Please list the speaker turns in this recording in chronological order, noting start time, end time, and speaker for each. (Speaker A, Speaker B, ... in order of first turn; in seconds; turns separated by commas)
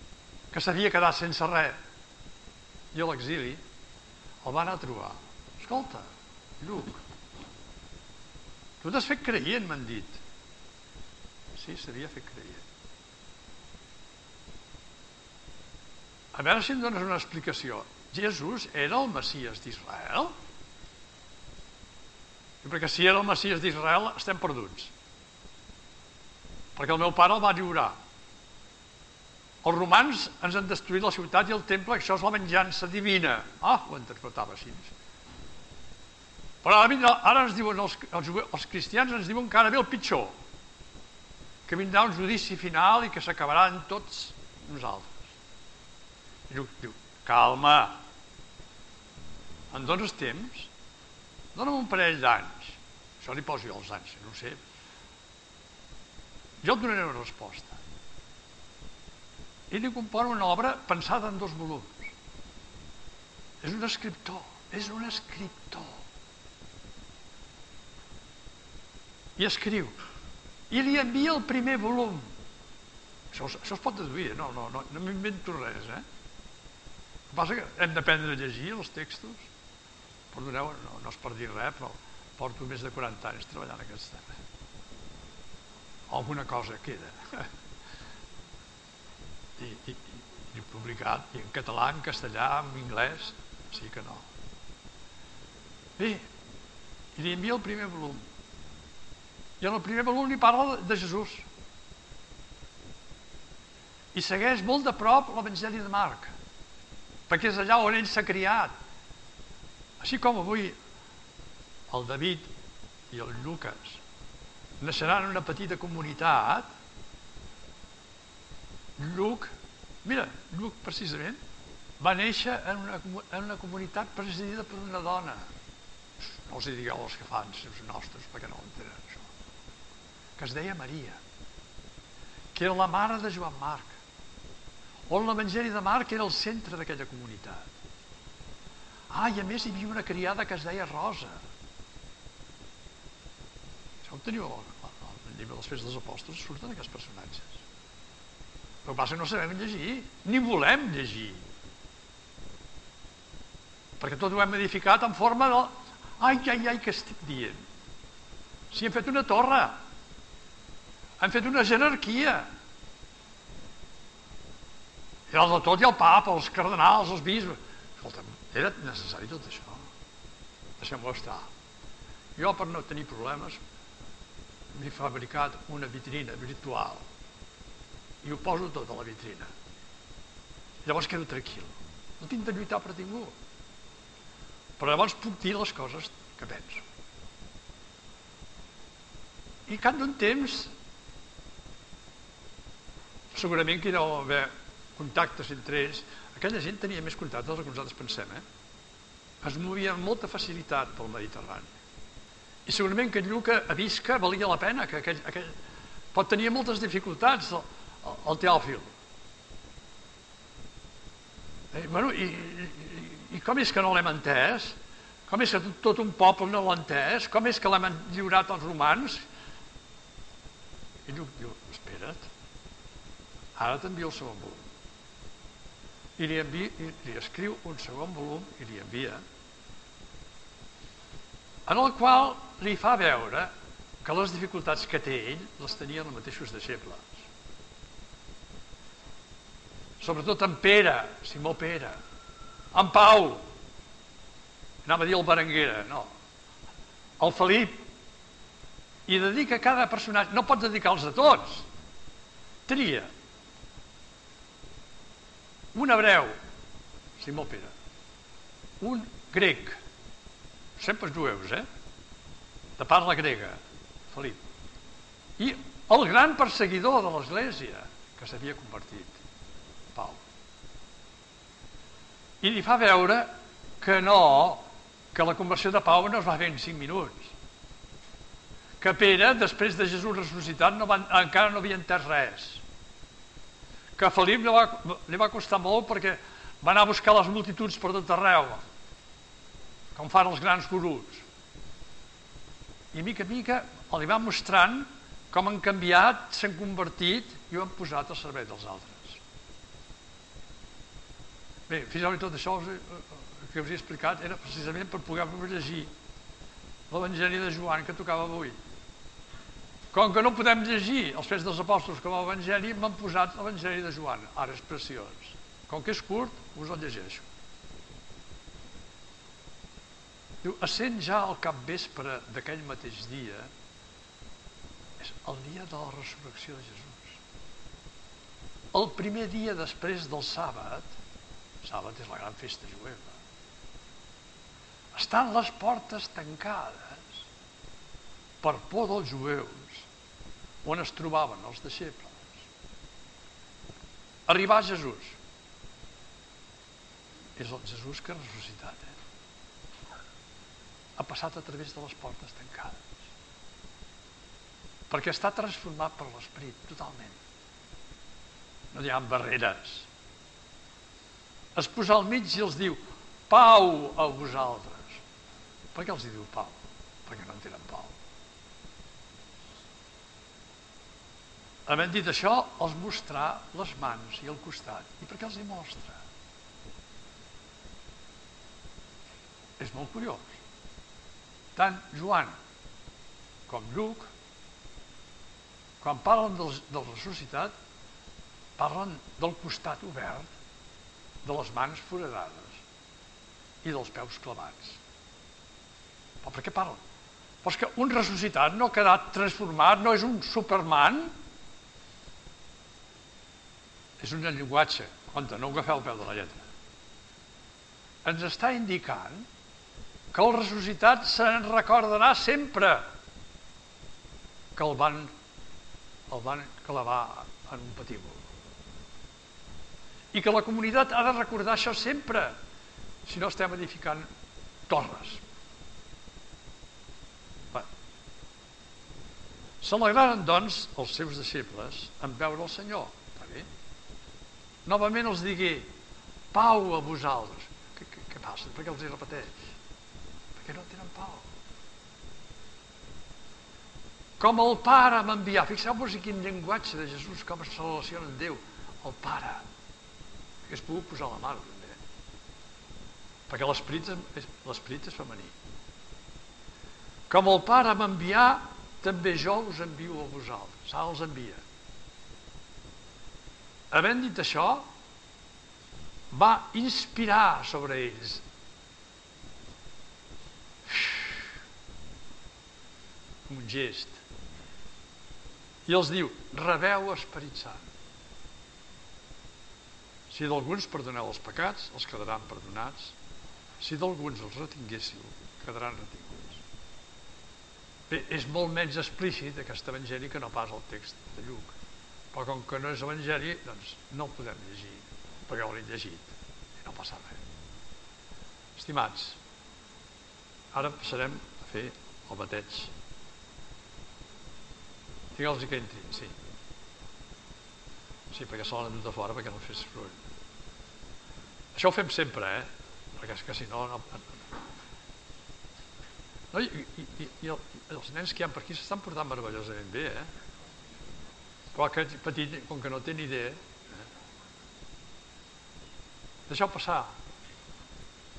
Speaker A: 0.5-1.8, Speaker A: 2.9-3.6, Speaker A: 4.4-7.0, Speaker A: 8.8-10.2, Speaker A: 11.6-12.6, Speaker A: 16.3-20.3, Speaker A: 22.6-24.9, Speaker A: 26.8-28.0, Speaker A: 29.6-34.9, Speaker A: 36.6-40.3, Speaker A: 41.7-45.3, Speaker A: 46.5-48.0, Speaker A: 49.7-50.7, Speaker A: 51.5-54.6, Speaker A: 56.6-57.8, Speaker A: 59.7-62.1, Speaker A: 63.6-66.0, Speaker A: 69.4-70.0, Speaker A: 70.7-72.3, Speaker A: 73.3-76.0, Speaker A: 77.3-79.5, Speaker A: 80.3-84.3, Speaker A: 86.1-87.5, Speaker A: 89.6-94.2, Speaker A: 96.0-96.3, Speaker A: 97.2-98.2, Speaker A: 99.6-101.5, Speaker A: 104.1-106.3, Speaker A: 107.3-108.7, Speaker A: 110.0-110.8, Speaker A: 111.9-112.5, Speaker A: 113.1-114.0, Speaker A: 114.8-116.7, Speaker A: 119.0-119.5, Speaker A: 120.0-121.4, Speaker A: 122.0-125.5, Speaker A: 126.2-129.3, Speaker A: 130.4-131.2, Speaker A: 132.6-134.0, Speaker A: 135.1-137.7, Speaker A: 139.1-141.4, Speaker A: 144.0-147.6, Speaker A: 148.8-151.4, Speaker A: 154.0-157.6, Speaker A: 158.7-159.8, Speaker A: 161.2-162.5, Speaker A: 165.3-169.8, Speaker A: 170.8-171.5, Speaker A: 172.4-173.6, Speaker A: 174.8-177.1, Speaker A: 178.2-179.5, Speaker A: 180.8-183.3, Speaker A: 184.8-186.8, Speaker A: 189.7-190.7, Speaker A: 193.3-198.4, Speaker A: 199.4-201.7, Speaker A: 202.7-205.6, Speaker A: 206.1-208.9, Speaker A: 211.7-219.3, Speaker A: 221.1-222.3, Speaker A: 223.6-224.7, Speaker A: 226.2-229.2, Speaker A: 231.7-233.5, Speaker A: 234.0-237.2, Speaker A: 240.0-242.0, Speaker A: 242.7-243.5, Speaker A: 244.8-246.1, Speaker A: 247.2-247.9, Speaker A: 249.1-251.7, Speaker A: 252.7-253.1, Speaker A: 255.7-256.4, Speaker A: 257.2-257.7, Speaker A: 258.8-259.8, Speaker A: 260.8-261.7, Speaker A: 262.8-263.6, Speaker A: 264.1-264.4, Speaker A: 265.4-269.2, Speaker A: 269.9-270.2, Speaker A: 272.4-277.3, Speaker A: 278.8-282.6, Speaker A: 284.0-288.6, Speaker A: 289.9-291.2, Speaker A: 292.9-299.2, Speaker A: 301.7-305.9, Speaker A: 306.9-308.6, Speaker A: 309.9-317.3, Speaker A: 320.4-323.5, Speaker A: 325.0-327.2, Speaker A: 328.7-330.9, Speaker A: 331.6-333.2, Speaker A: 334.9-337.3, Speaker A: 338.4-339.9, Speaker A: 340.6-342.4, Speaker A: 344.3-345.2, Speaker A: 347.4-349.0, Speaker A: 351.0-353.1, Speaker A: 354.9-357.2, Speaker A: 358.7-359.9, Speaker A: 361.6-365.0, Speaker A: 365.7-368.0, Speaker A: 371.7-376.0, Speaker A: 379.6-380.4, Speaker A: 381.6-382.4, Speaker A: 383.5-384.1, Speaker A: 385.8-387.5, Speaker A: 388.6-390.3, Speaker A: 391.2-392.6, Speaker A: 393.6-394.8, Speaker A: 396.2-396.8, Speaker A: 397.4-401.1, Speaker A: 404.0-406.5, Speaker A: 408.0-409.3, Speaker A: 410.1-412.9, Speaker A: 414.6-415.1, Speaker A: 416.1-418.3, Speaker A: 420.1-422.4, Speaker A: 423.1-424.1, Speaker A: 424.7-425.2, Speaker A: 429.6-433.5, Speaker A: 434.7-435.7, Speaker A: 436.3-439.6, Speaker A: 440.4-441.2, Speaker A: 444.2-449.5, Speaker A: 450.5-451.8, Speaker A: 453.3-455.3, Speaker A: 457.1-461.4, Speaker A: 463.7-464.7, Speaker A: 466.1-468.2, Speaker A: 470.7-471.1, Speaker A: 473.3-474.0, Speaker A: 475.7-477.7, Speaker A: 480.1-483.0, Speaker A: 483.6-486.4, Speaker A: 487.9-491.6, Speaker A: 492.1-497.2, Speaker A: 498.6-499.2, Speaker A: 500.5-502.7, Speaker A: 505.2-506.1, Speaker A: 508.1-510.0, Speaker A: 511.6-514.1, Speaker A: 516.3-520.1, Speaker A: 521.5-523.4, Speaker A: 526.3-526.9